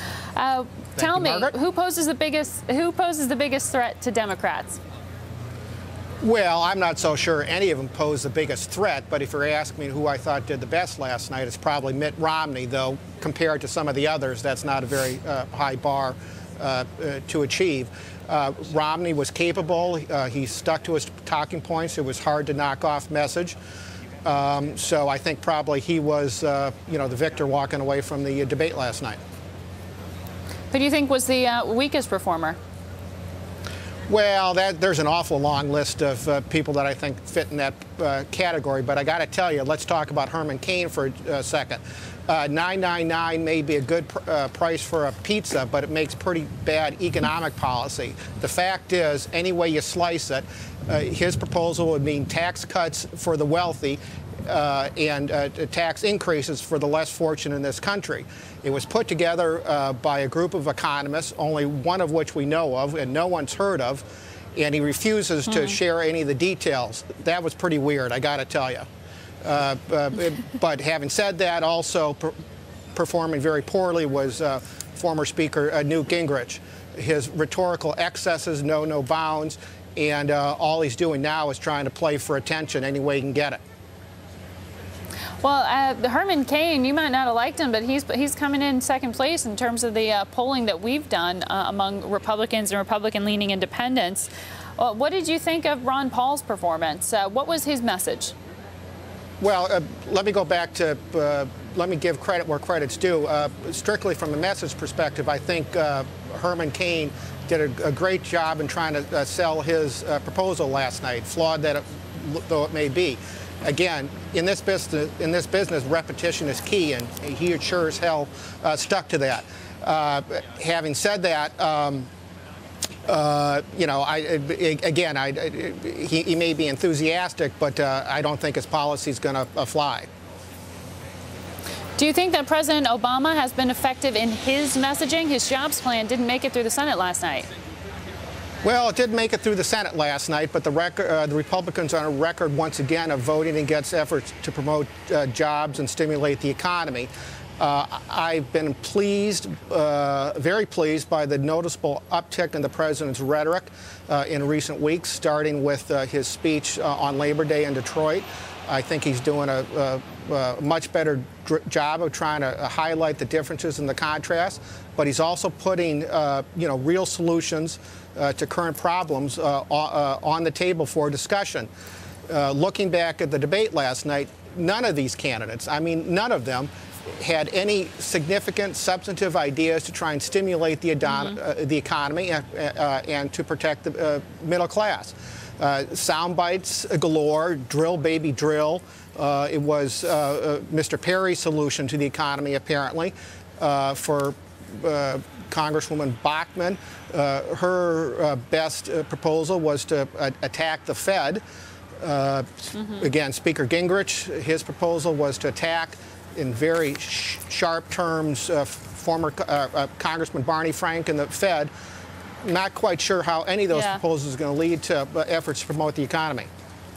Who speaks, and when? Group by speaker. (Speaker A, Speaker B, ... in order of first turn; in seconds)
Speaker A: 0.3-4.8, 30.7-32.6, 85.4-98.3, 132.0-137.5, 213.7-214.0
Speaker B: 1.0-1.5, 6.2-23.6, 24.2-29.2, 34.1-64.0, 64.6-68.9, 69.4-72.3, 73.0-83.6, 99.4-122.1, 123.1-130.1, 138.6-171.7, 172.3-201.4, 202.0-211.7, 212.4-216.5